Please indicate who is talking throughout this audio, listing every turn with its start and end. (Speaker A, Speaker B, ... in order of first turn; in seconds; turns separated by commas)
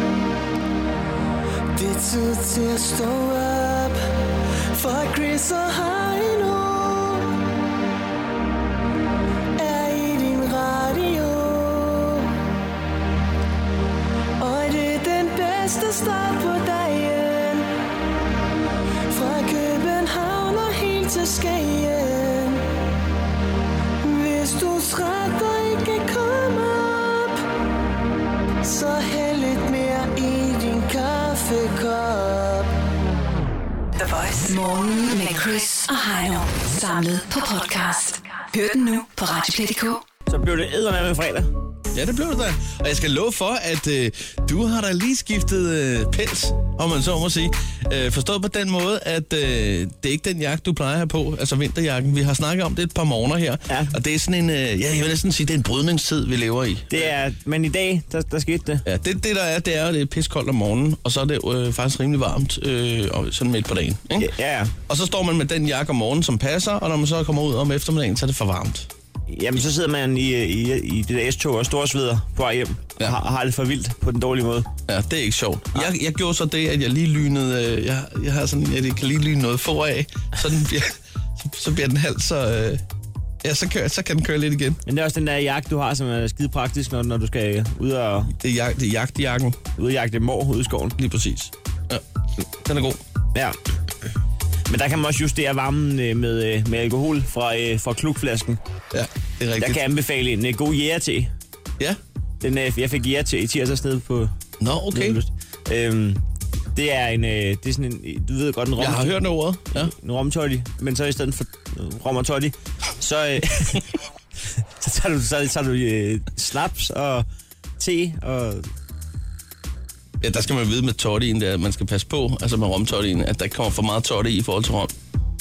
Speaker A: 1.7-4.0, Speaker A: 4.7-7.4, Speaker A: 9.6-12.3, Speaker A: 14.4-17.7, Speaker A: 19.1-22.7, Speaker A: 24.0-27.4, Speaker A: 28.6-32.7, Speaker B: 34.0-40.0, Speaker C: 40.3-41.5, Speaker D: 41.9-57.1, Speaker C: 53.7-54.0, Speaker C: 56.9-58.8, Speaker D: 58.9-64.3, Speaker C: 64.2-64.7, Speaker D: 64.9-68.9, Speaker C: 69.3-74.7, Speaker D: 74.9-82.8, Speaker D: 83.4-84.8, Speaker C: 84.9-88.3, Speaker D: 88.4-89.6, Speaker C: 89.8-91.0, Speaker D: 91.0-92.0, Speaker D: 92.6-93.0, Speaker C: 94.7-98.6, Speaker D: 98.9-99.8, Speaker C: 99.6-101.3, Speaker C: 102.4-104.3, Speaker D: 104.6-105.2, Speaker C: 104.9-106.2, Speaker C: 106.8-109.2, Speaker D: 108.8-109.9, Speaker C: 109.7-113.9, Speaker C: 114.8-117.3, Speaker C: 117.8-118.7, Speaker D: 120.2-124.9